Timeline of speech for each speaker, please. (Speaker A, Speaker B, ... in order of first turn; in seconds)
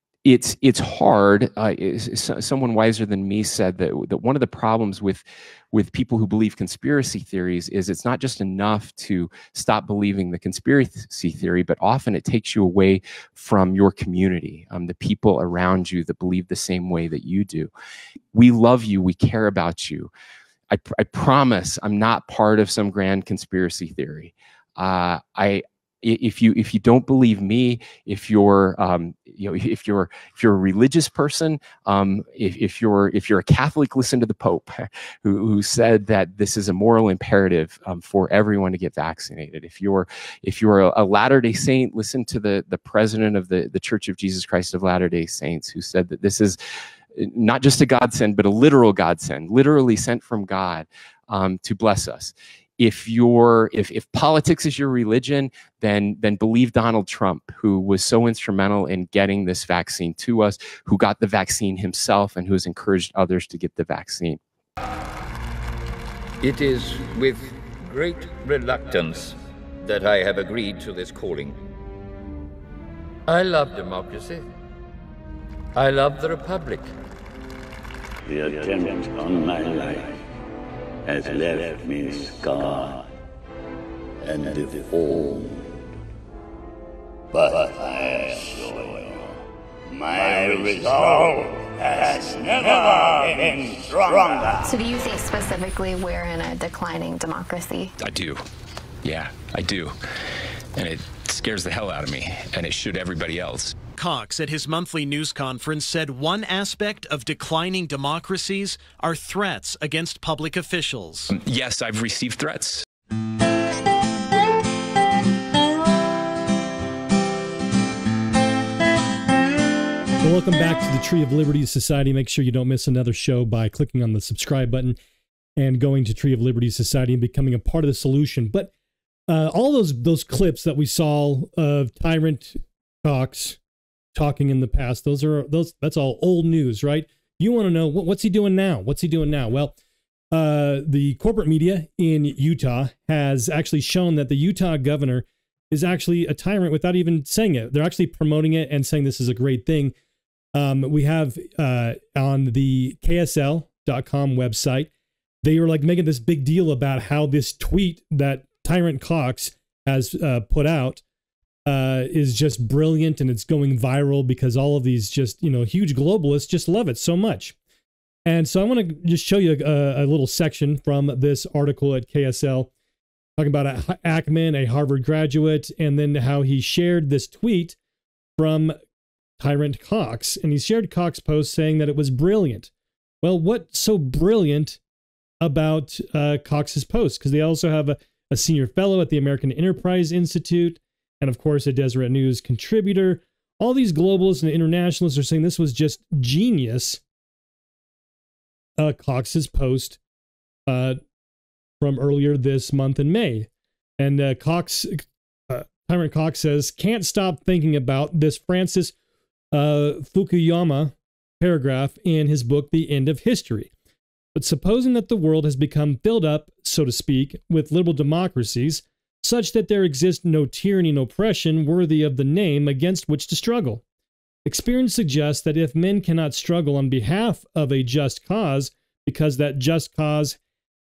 Speaker A: 0.2-17.7, 18.3-20.1, 20.7-46.6, 47.2-64.4, 98.1-98.4, 99.0-99.3, 100.8-101.6, 102.1-102.7
Speaker B: 66.4-71.6, 73.3-74.5, 75.8-76.9
Speaker C: 78.3-80.2, 81.1-83.1, 84.2-85.8, 87.3-89.4, 89.9-94.7
Speaker D: 94.6-98.0
Speaker E: 98.0-98.3, 99.2-100.0, 100.8-103.8, 111.4-112.8
Speaker F: 104.0-111.3
Speaker G: 120.2-125.0, 125.6-128.7, 129.3-133.6, 134.2-139.8, 140.3-149.9, 150.6-154.9, 155.4-161.0, 161.7-167.6, 168.3-172.7, 173.4-177.8, 178.4-178.8, 179.4-182.7, 183.2-184.8, 185.4-197.0, 198.8-200.0, 200.7-201.0, 201.8-208.9, 209.5-213.7, 214.3-223.8, 224.4-230.4